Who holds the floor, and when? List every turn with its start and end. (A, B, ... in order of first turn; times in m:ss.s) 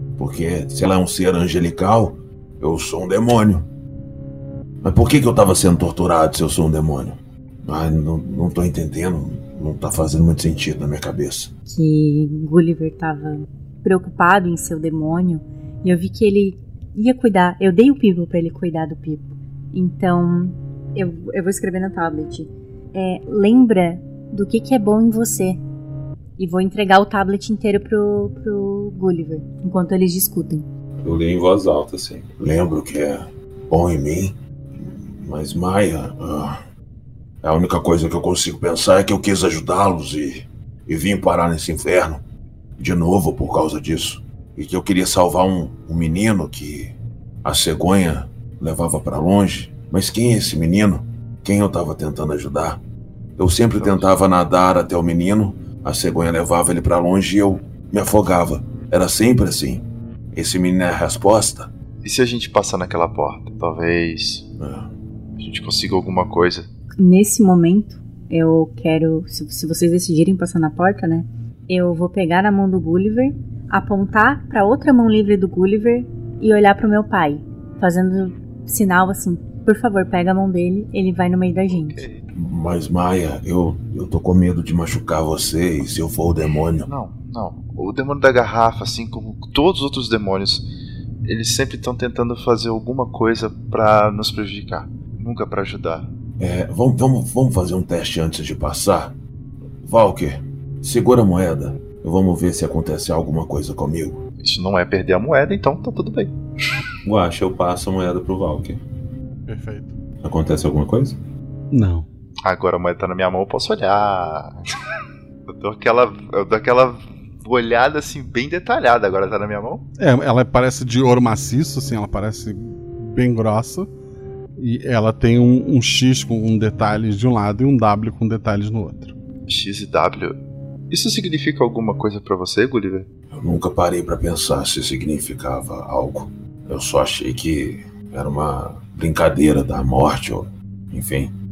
0:00.2-0:03.7 A
0:04.8-0:11.5 A
0:11.7-0:25.6 B
0:26.4-0:30.6 B
0:31.0-0:32.3 C
0:32.4-0:36.6 A
0:37.4-0:42.2 A
0:42.8-0:52.8 A
0:53.4-1:01.7 A
0:53.8-0:54.1 D
1:02.0-1:04.5 D
1:04.6-1:04.9 A
1:05.4-1:06.7 D
1:07.0-1:22.0 B
1:21.7-1:22.3 D
1:22.3-1:26.9 A
1:26.8-1:30.7 D
1:31.2-1:36.1 D
1:36.4-1:39.2 A
1:39.8-1:44.2 A
1:44.4-1:46.4 D
1:47.0-1:48.8 C
1:49.5-1:49.9 E
1:50.2-1:51.2 C
1:51.7-1:52.1 E
1:52.4-1:54.6 D
1:55.5-1:59.8 D
2:00.0-2:03.9 E
2:04.6-2:09.1 E
2:09.5-2:10.4 D
2:10.9-2:13.1 D
2:13.3-2:21.3 A